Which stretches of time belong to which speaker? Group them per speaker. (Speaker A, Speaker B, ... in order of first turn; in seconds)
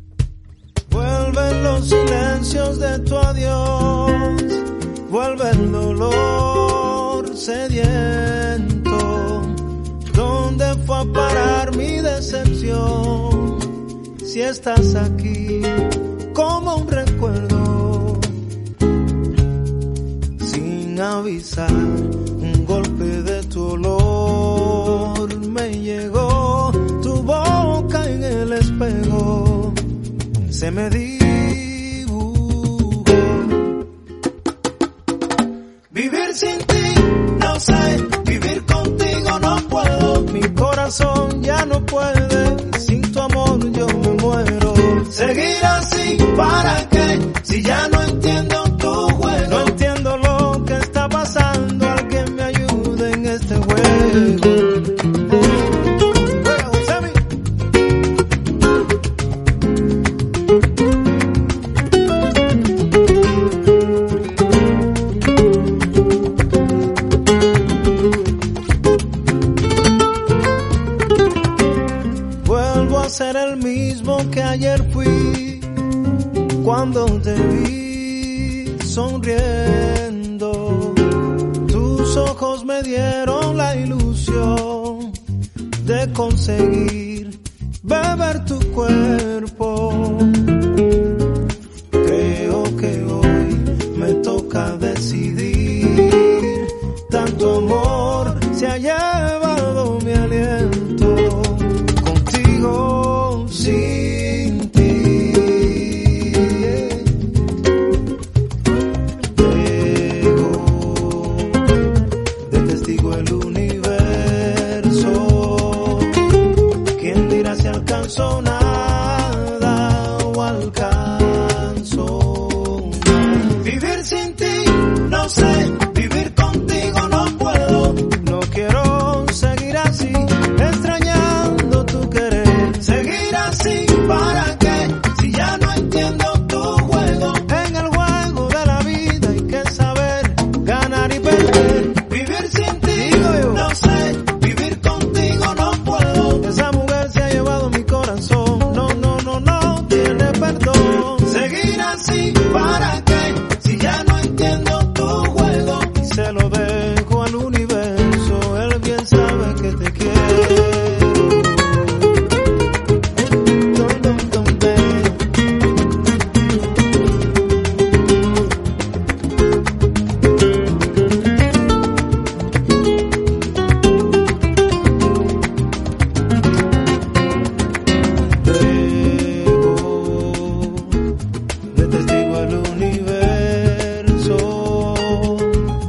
Speaker A: 0.9-13.7, 14.2-18.3, 20.4-29.8, 30.5-33.7, 35.9-55.6, 56.4-57.2, 72.4-75.7, 76.6-85.2, 85.8-90.5, 92.0-107.3, 109.3-111.6, 112.4-116.2, 116.9-162.1, 163.7-165.2, 178.4-180.9, 181.7-185.6